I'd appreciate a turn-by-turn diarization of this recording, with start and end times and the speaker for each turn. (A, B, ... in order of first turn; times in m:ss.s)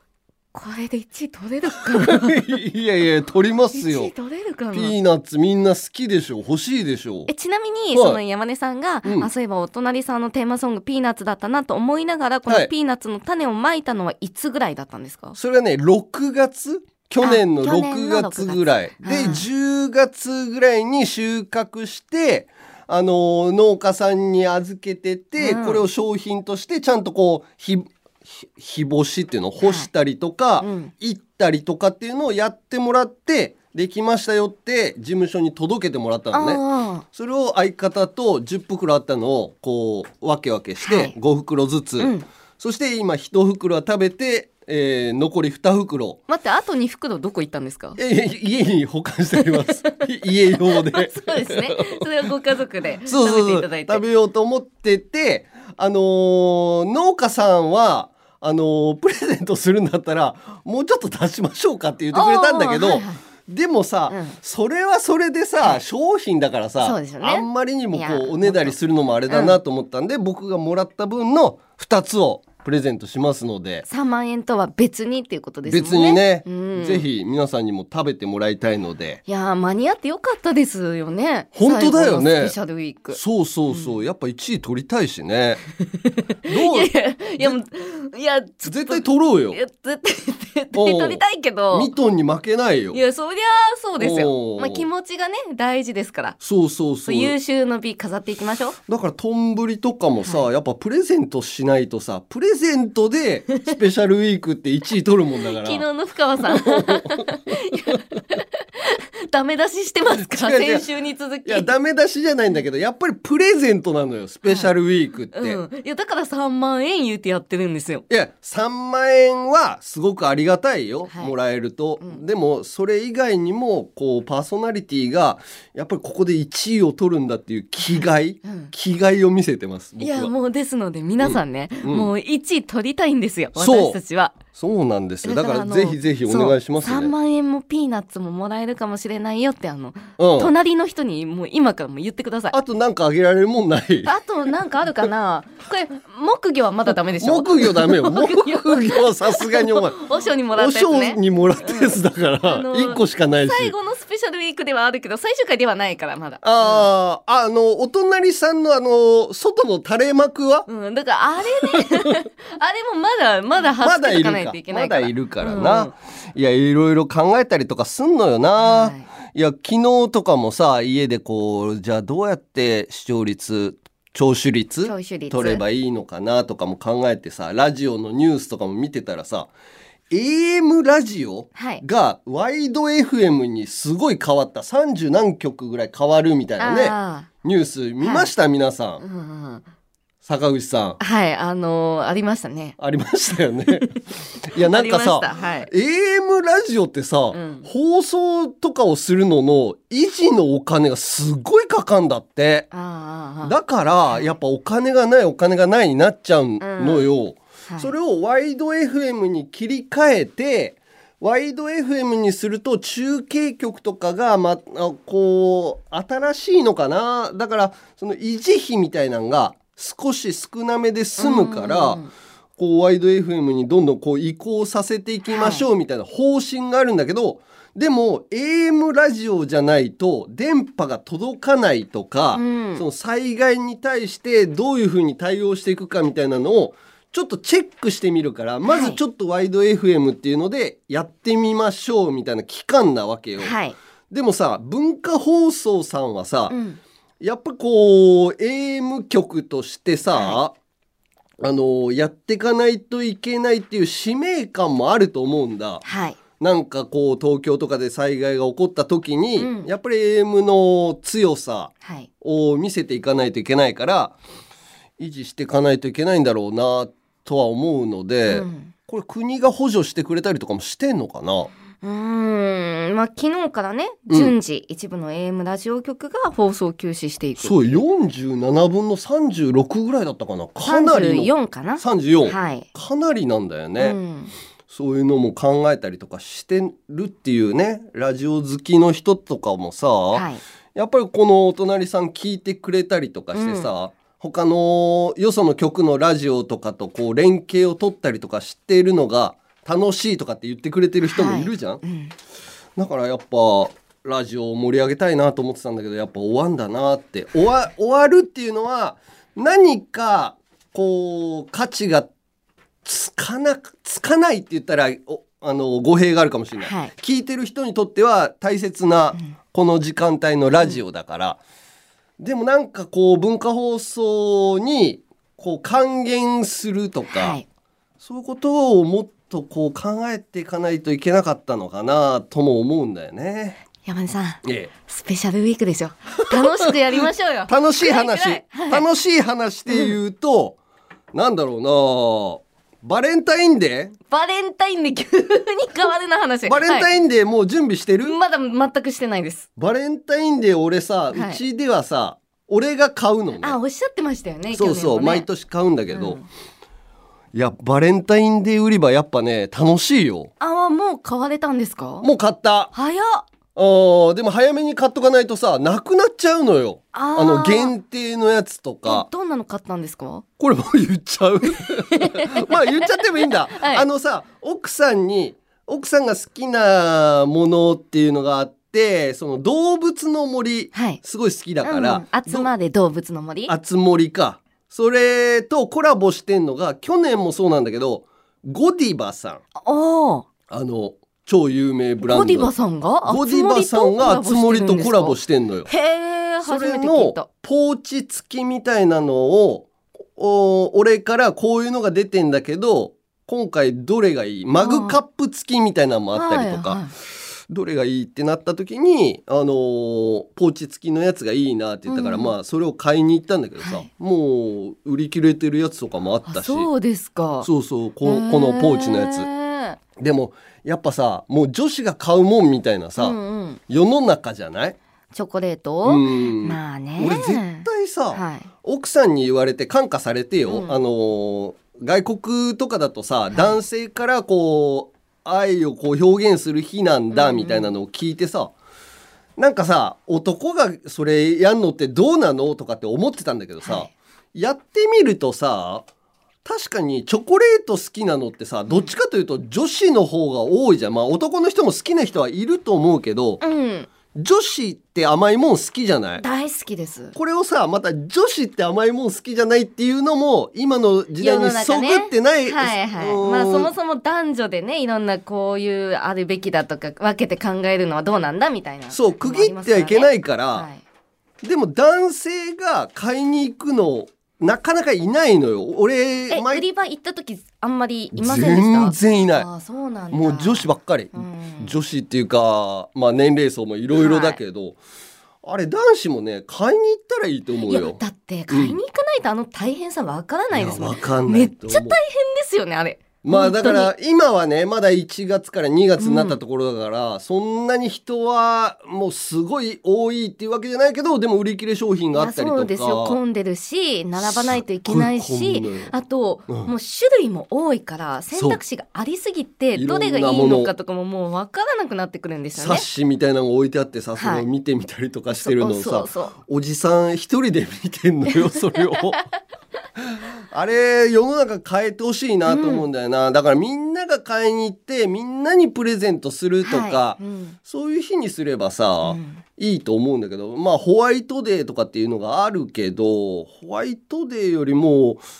0:00.5-0:02.5 A
0:01.9-0:04.1 B
0:03.7-0:04.9 A
0:04.7-0:07.3 B
0:07.3-0:15.4 A
0:07.9-0:08.2 B
0:09.0-0:09.3 B
0:15.3-0:46.2 B
0:17.2-0:19.5 A
0:25.4-0:25.8 A
0:29.6-0:29.9 A
0:30.6-0:30.9 A
0:36.3-0:37.0 A
0:40.8-0:41.1 A
0:42.0-0:42.2 A
0:46.3-0:48.0 A
0:48.0-0:52.0 B
0:49.4-0:50.1 A
0:50.7-0:54.0 A
0:53.0-1:13.8 B
1:02.1-1:03.2 A
1:04.1-1:04.4 A
1:06.8-1:08.8 A
1:09.3-1:09.6 A
1:13.9-1:17.1 A
1:15.6-1:19.2 B
1:19.3-1:24.0 A
1:21.5-1:22.6 B
1:23.1-1:25.6 B
1:25.8-1:31.9 A
1:26.4-1:27.6 B
1:28.6-1:29.6 B
1:30.7-1:33.0 B
1:32.9-1:36.4 A
1:34.0-1:34.9 B
1:36.4-1:37.3 B
1:37.0-1:38.8 A
1:38.9-1:45.8 B
1:45.5-1:51.7 A
1:46.5-1:47.0 B
1:50.3-1:50.8 B
1:51.4-1:55.6 B
1:55.3-1:58.0 A
1:58.1-2:10.3 B
2:01.1-2:01.3 A
2:07.8-2:08.7 A
2:10.0-2:14.4 A
2:11.2-2:12.1 B
2:13.5-2:14.0 B
2:14.5-2:17.1 B
2:15.2-2:22.6 A
2:20.2-2:20.5 B
2:22.5-2:24.1 B
2:24.0-2:36.9 A
2:27.2-2:30.0 B
2:30.5-2:33.7 B
2:36.4-2:40.7 B
2:40.7-2:45.9 A
2:43.8-2:59.5 B
2:48.6-2:49.1 A
2:54.8-2:55.6 A
3:00.1-3:09.0 B
3:01.5-3:01.8 A
3:06.6-3:07.3 A
3:08.0-3:08.3 A
3:09.0-3:09.6 A
3:10.2-3:11.0 B
3:11.0-3:12.8 A
3:12.8-3:22.7 B
3:14.6-3:15.7 A
3:17.3-3:17.7 A
3:22.7-3:23.6 A
3:23.4-3:42.0 B
3:26.6-3:27.1 A
3:27.7-3:27.9 A
3:41.2-3:42.1 A
3:42.6-4:03.5 B
3:45.3-3:45.7 A
3:52.3-3:52.8 A
3:58.6-3:59.0 A
4:03.4-4:03.8 A
4:04.1-4:06.5 B
4:06.5-4:06.8 A
4:07.2-4:10.5 B
4:10.1-4:10.4 A
4:11.4-4:15.8 B
4:15.8-4:16.2 A
4:16.4-4:24.2 B
4:19.4-4:19.7 A
4:21.8-4:22.1 A
4:25.0-4:31.5 B
4:28.3-4:28.7 A
4:31.8-4:37.8 A
4:34.1-4:34.3 B
4:37.4-4:44.0 B
4:40.6-4:42.7 A
4:43.8-4:44.3 A
4:44.7-5:01.8 B
4:50.1-4:50.4 A
4:53.3-4:53.7 A
5:01.0-5:02.1 A
5:02.8-5:12.1 B
5:12.8-5:21.4 B
5:16.6-5:16.9 A
5:22.2-5:27.4 B
5:27.1-5:27.4 A
5:28.0-5:33.6 B
5:33.8-5:38.8 A
5:34.4-5:34.7 B
5:36.2-5:40.6 B
5:39.7-5:39.9 A
5:41.1-5:44.0 B
5:44.1-5:46.9 A
5:46.4-5:48.1 B
5:48.0-5:49.5 A
5:49.6-5:53.6 B
5:51.1-5:51.4 A
5:53.4-5:55.3 A
5:54.5-5:56.2 B
5:55.9-5:56.2 A
5:57.3-6:00.3 B
6:00.4-6:02.0 A
6:02.0-6:02.7 B
6:02.7-6:03.3 A
6:03.5-6:09.0 B
6:06.9-6:07.7 A
6:08.8-6:10.2 A
6:10.4-6:22.5 B
6:11.9-6:12.8 A
6:13.5-6:13.8 A
6:20.7-6:21.0 A
6:21.6-6:23.5 A
6:23.5-6:29.4 B
6:29.5-6:30.3 A
6:30.5-6:32.5 B
6:32.0-6:37.3 A
6:33.0-6:35.7 B
6:36.4-6:46.8 B
6:44.6-6:45.0 A
6:46.1-6:46.9 A
6:47.5-6:56.7 B
6:51.9-6:52.3 A
6:53.6-6:53.9 A
6:56.2-6:57.5 A
6:57.4-6:59.3 B
6:58.0-6:59.8 A
7:00.0-7:03.2 B
7:03.0-7:03.6 A
7:03.7-7:04.8 B
7:05.1-7:08.5 A
7:05.8-7:18.5 B
7:10.5-7:10.8 A
7:13.3-7:13.6 A
7:17.1-7:17.7 A
7:19.4-7:25.8 B
7:23.6-7:23.9 A
7:26.4-7:33.4 B
7:33.4-7:33.9 A
7:34.1-7:36.2 B
7:36.2-7:37.2 A
7:37.1-7:43.7 B
7:41.2-7:50.8 A
7:48.9-7:50.7 B
7:51.4-7:56.6 B
7:56.3-8:01.7 A
7:58.1-7:59.5 B
8:00.1-8:04.8 B
8:03.9-8:04.4 A
8:05.4-8:08.0 B
8:07.7-8:13.9 A
8:08.5-8:08.8 B
8:10.5-8:12.0 B
8:13.2-8:23.2 B
8:16.0-8:16.4 A
8:22.1-8:32.8 A
8:24.2-8:25.9 B
8:28.3-8:28.6 B
8:29.7-8:30.7 B
8:32.5-8:39.2 B
8:34.2-8:34.5 A
8:35.3-8:36.3 A
8:38.4-8:39.2 A
8:40.0-8:55.2 B
8:42.4-8:42.8 A
8:46.6-8:47.6 A
8:49.0-8:49.4 A